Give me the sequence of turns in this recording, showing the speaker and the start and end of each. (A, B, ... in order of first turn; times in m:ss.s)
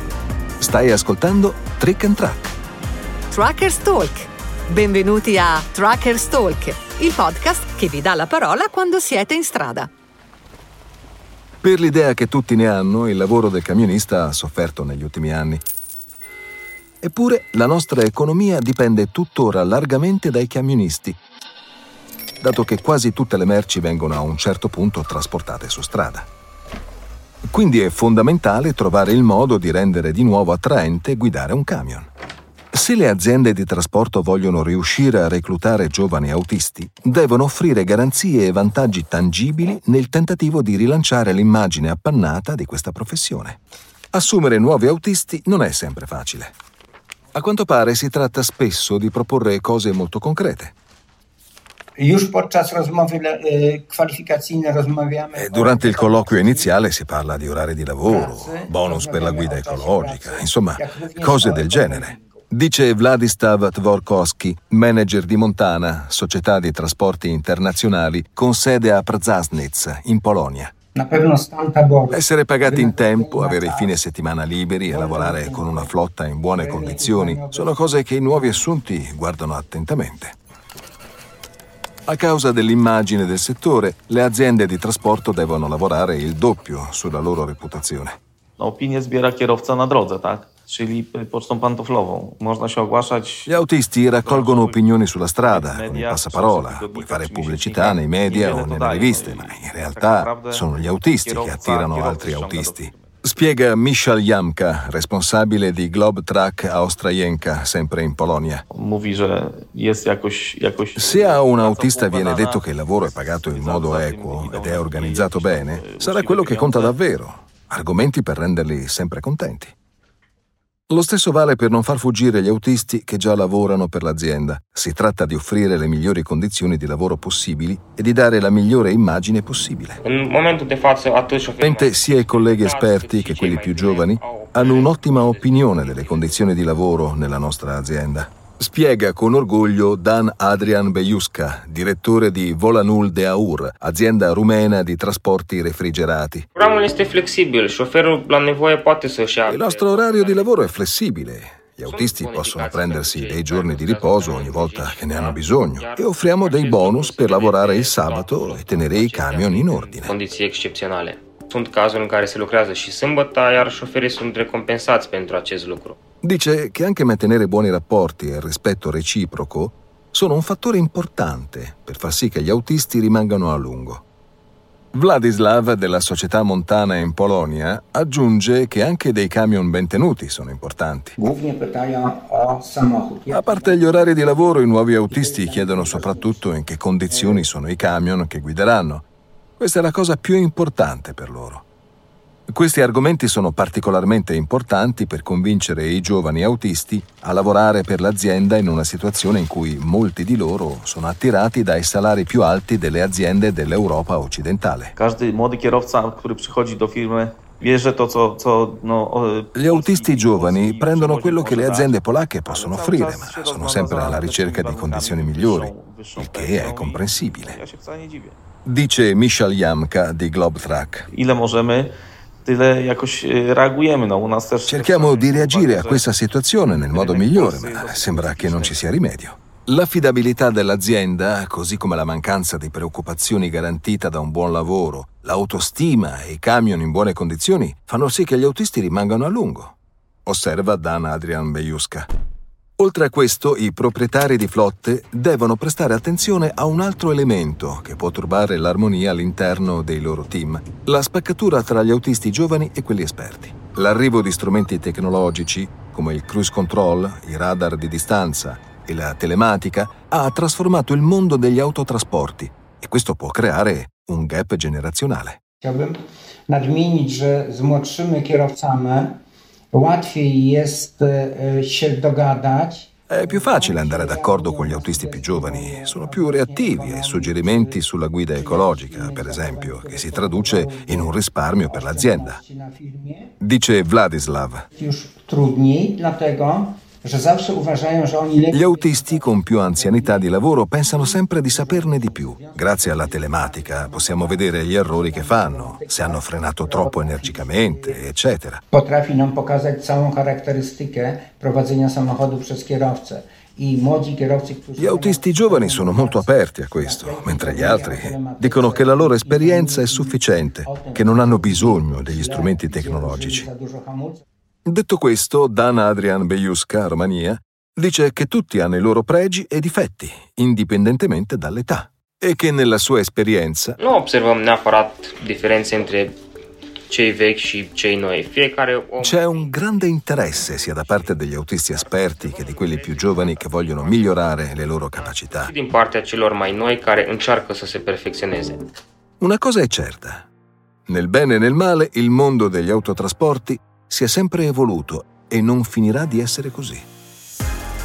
0:00.6-0:02.5 A
0:03.3-0:09.9 B
0:11.6-0:15.6 A
0:17.0-0:21.2 A
0:22.4-0:26.3 A
0:27.5-0:32.1 A
0:32.7-0:43.6 A
0:44.1-0:46.5 A
0:47.3-0:50.7 A
0:52.0-0:56.8 C
0:55.3-1:10.7 A
0:58.0-1:02.4 C
1:10.9-1:14.0 C
1:12.1-1:20.3 A
1:14.9-1:15.9 C
1:16.6-1:18.6 C
1:22.1-1:28.2 A
1:28.6-1:34.8 D
1:33.5-1:48.6 A
1:35.4-1:43.1 D
1:48.7-1:57.0 D
1:51.0-1:59.7 A
2:00.9-2:10.0 A
2:10.0-2:16.6 E
2:11.6-2:26.4 A
2:26.6-2:30.6 E
2:29.5-2:40.1 A
2:31.8-2:46.0 E
2:46.2-2:54.0 A
2:54.9-3:01.2 A
3:01.2-3:04.5 C
3:03.3-3:09.0 A
3:05.1-3:06.4 C
3:07.1-3:07.4 C
3:09.6-3:11.6 A
3:12.5-3:24.9 A
3:24.9-3:38.4 D
3:29.5-3:37.6 A
3:38.6-3:41.1 A
3:41.1-3:46.1 D
3:44.7-3:59.7 A
3:46.6-3:48.9 D
4:00.2-4:02.1 A
4:02.8-4:25.4 A
4:25.6-4:26.0 C
4:26.5-4:29.2 C
4:29.7-4:37.8 C
4:33.1-4:42.4 A
4:38.3-4:43.3 C
4:43.4-4:44.6 A
4:44.7-4:58.0 C
4:48.5-4:58.6 A
4:58.7-5:14.2 C
5:04.8-5:13.5 A
5:14.6-5:23.8 A
5:23.8-5:26.2 E
5:26.9-5:38.7 E
5:29.0-5:35.5 A
5:39.2-5:40.3 A
5:40.9-5:46.8 A